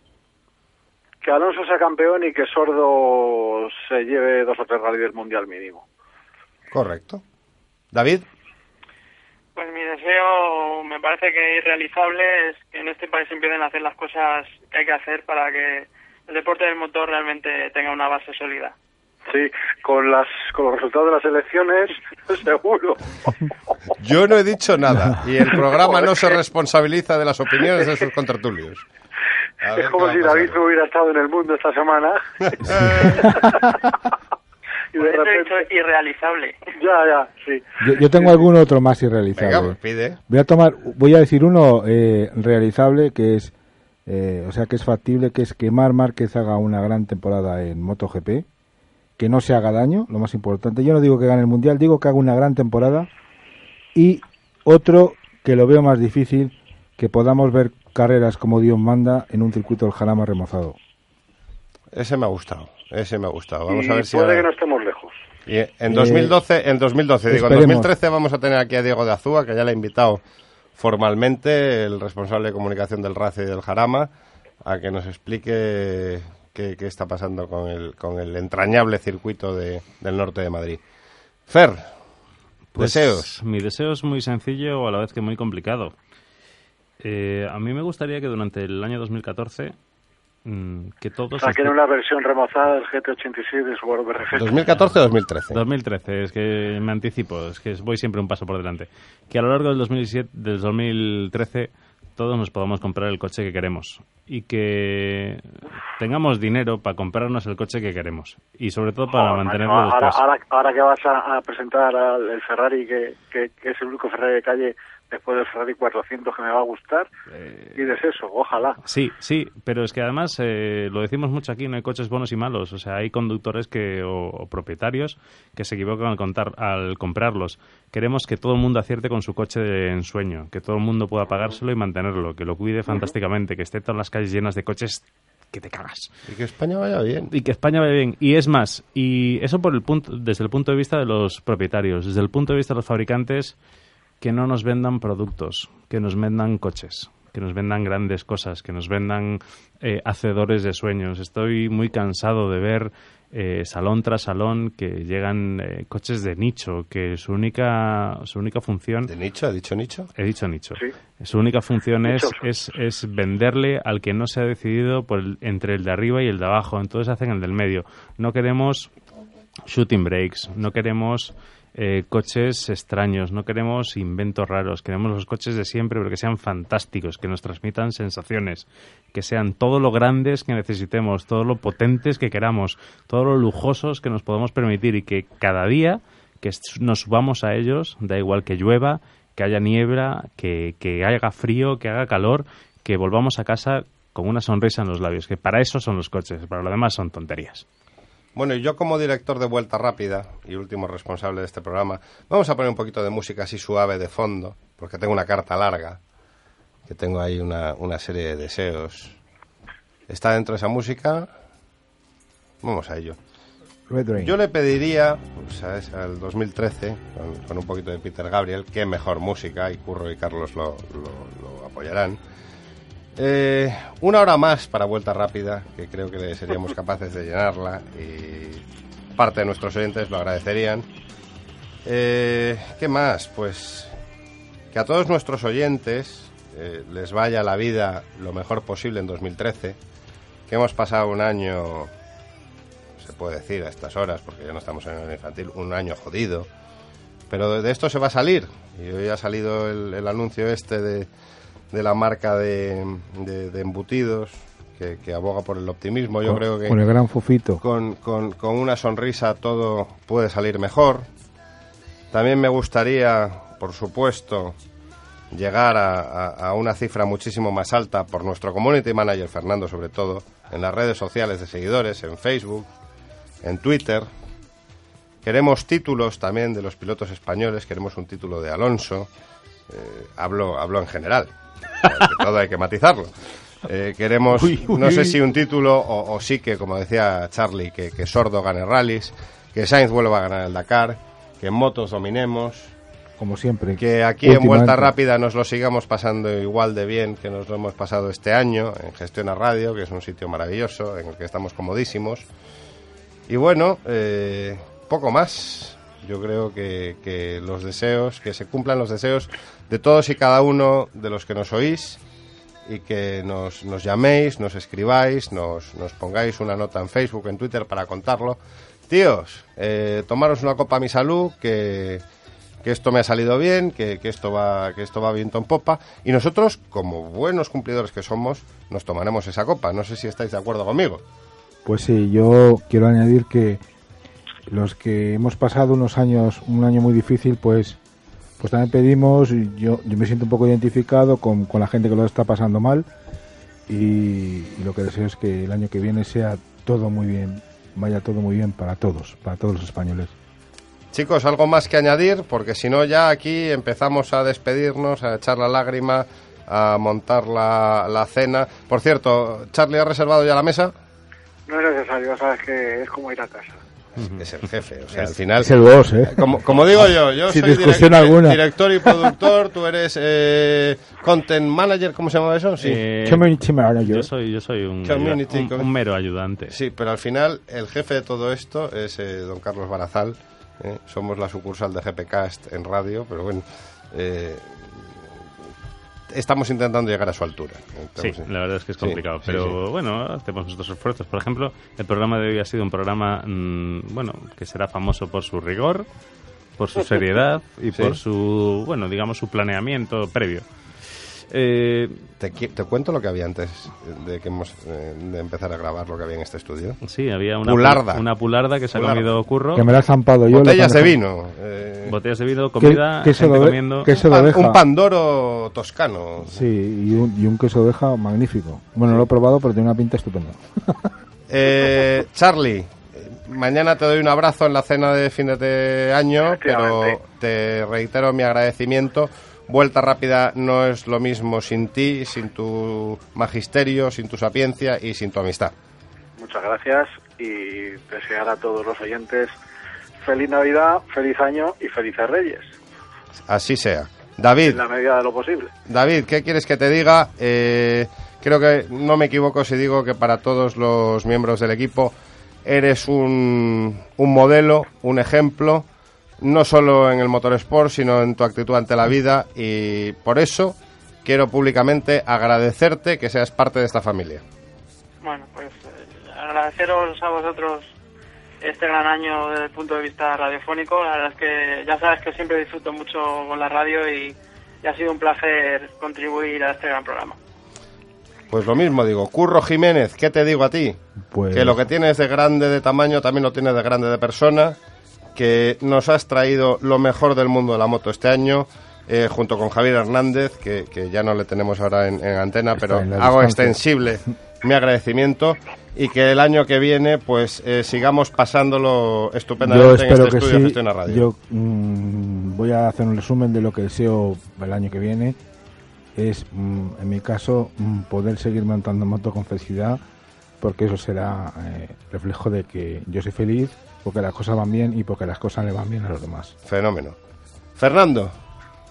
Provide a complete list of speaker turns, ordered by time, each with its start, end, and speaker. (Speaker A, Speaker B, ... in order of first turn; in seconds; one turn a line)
Speaker A: 1.2-5.8
Speaker B: 6.7-7.2
Speaker B: 7.9-8.2
Speaker C: 9.6-18.7
Speaker A: 19.3-23.0
Speaker B: 24.0-28.8
Speaker D: 24.9-25.2
Speaker B: 29.6-30.6
Speaker A: 29.7-32.2
Speaker B: 32.4-33.4
Speaker D: 32.7-33.7
Speaker A: 34.9-35.7
Speaker C: 35.0-36.6
Speaker A: 36.8-38.5
Speaker D: 37.8-39.8
Speaker B: 39.4-40.2
Speaker D: 40.3-43.5
Speaker D: 44.0-48.4
Speaker D: 49.2-53.1
Speaker D: 53.9-60.8
Speaker B: 61.9-64.5
Speaker A: 63.7-65.1
Speaker B: 65.5-70.2
Speaker D: 65.9-66.4
Speaker D: 67.3-67.9
Speaker B: 70.8-74.1
Speaker B: 74.6-80.8
Speaker B: 81.5-81.8
Speaker B: 82.8-83.3
Speaker E: 82.8-85.9
Speaker E: 87.0-89.7
Speaker E: 90.4-91.7
Speaker A: 91.4-94.6
Speaker B: 94.3-95.6
Speaker E: 95.5-105.4
Speaker E: 106.0-110.2
Speaker A: 109.1-117.1
Speaker E: 117.3-117.8
Speaker A: 117.8-118.8
Speaker E: 118.8-136.1
Speaker B: 136.3-137.3
Speaker E: 137.3-143.5
Speaker E: 144.2-159.1
Speaker B: 159.1-160.1
Speaker E: 160.2-168.9
Speaker A: 162.0-162.4
Speaker E: 169.7-197.6
Speaker B: 198.3-206.0
Speaker B: 206.9-209.2
Speaker B: 210.1-211.3
Speaker B: 212.6-213.2
Speaker D: 213.9-214.3
Speaker B: 214.2-222.2
Speaker B: 223.2-228.6
Speaker B: 229.2-230.9
Speaker B: 231.8-233.9
Speaker B: 234.7-239.8
Speaker B: 240.5-241.9
Speaker B: 243.0-246.5
Speaker B: 247.3-251.1
Speaker B: 251.7-256.8
Speaker D: 256.2-257.6
Speaker B: 257.6-261.1
Speaker B: 262.1-264.6
Speaker B: 265.3-272.7
Speaker B: 273.4-274.1
Speaker B: 275.2-279.1
Speaker B: 279.7-283.1
Speaker B: 283.6-292.7
Speaker D: 284.3-285.2
Speaker D: 293.2-294.9
Speaker B: 293.8-302.2
Speaker B: 303.3-312.0
Speaker B: 312.7-322.0
Speaker B: 322.6-331.0
Speaker D: 331.6-333.6
Speaker D: 334.5-337.8
Speaker D: 338.4-342.9
Speaker D: 343.7-350.1
Speaker B: 350.9-360.7
Speaker A: 361.5-363.6
Speaker B: 364.0-365.5
Speaker D: 365.0-369.1
Speaker B: 366.1-372.8
Speaker E: 372.6-373.3
Speaker D: 373.0-374.1
Speaker E: 373.8-376.6
Speaker B: 374.8-375.7
Speaker B: 376.5-384.9
Speaker B: 386.1-388.3
Speaker E: 388.0-395.9
Speaker B: 388.8-389.6
Speaker E: 396.6-402.1
Speaker B: 402.2-406.8
Speaker E: 406.8-409.7
Speaker B: 407.4-408.0
Speaker B: 408.7-409.1
Speaker D: 409.5-411.0
Speaker B: 410.3-411.9
Speaker E: 411.8-413.9
Speaker D: 412.6-414.6
Speaker B: 413.9-416.4
Speaker D: 416.2-420.9
Speaker B: 421.3-435.5
Speaker A: 426.3-426.9
Speaker A: 436.2-439.3
Speaker A: 440.0-442.5
Speaker B: 443.3-444.6
Speaker A: 444.4-445.5
Speaker B: 445.7-451.9
Speaker B: 452.4-455.6
Speaker B: 456.2-464.2
Speaker C: 465.0-467.7
Speaker C: 468.4-477.2
Speaker B: 478.3-480.8
Speaker D: 481.1-481.7
Speaker B: 481.3-484.6
Speaker B: 485.1-501.0
Speaker D: 492.6-493.6
Speaker D: 499.4-505.2
Speaker D: 505.9-509.8
Speaker D: 510.4-516.3
Speaker B: 516.4-517.0
Speaker B: 517.5-518.1